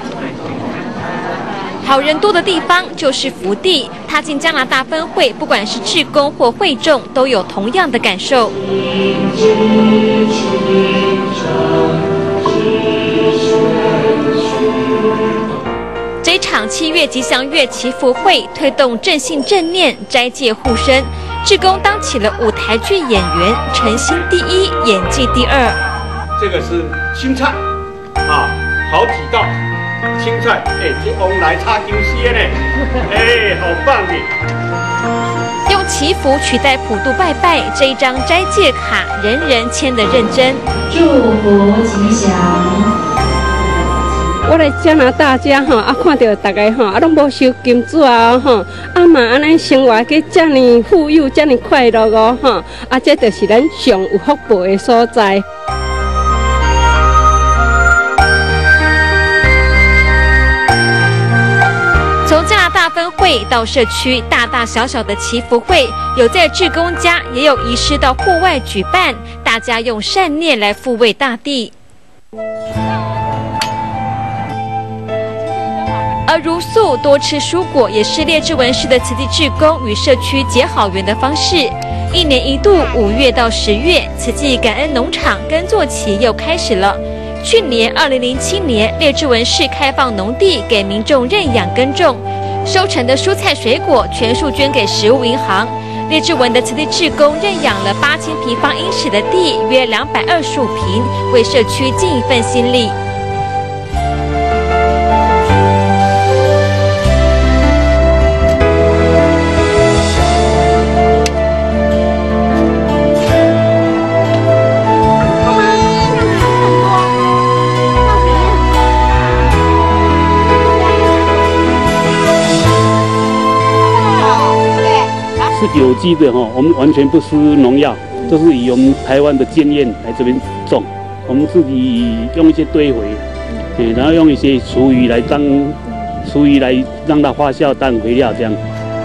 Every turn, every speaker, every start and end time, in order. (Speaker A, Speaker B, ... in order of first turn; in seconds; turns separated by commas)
Speaker A: 1.8-8.6, Speaker A: 16.2-25.8, Speaker B: 26.4-27.6, Speaker B: 28.2-29.5, Speaker B: 30.2-32.5, Speaker B: 33.0-34.3, Speaker A: 35.7-42.9, Speaker C: 44.4-55.4, Speaker A: 62.2-71.7, Speaker A: 76.2-102.9, Speaker D: 125.5-133.2, Speaker D: 133.8-138.6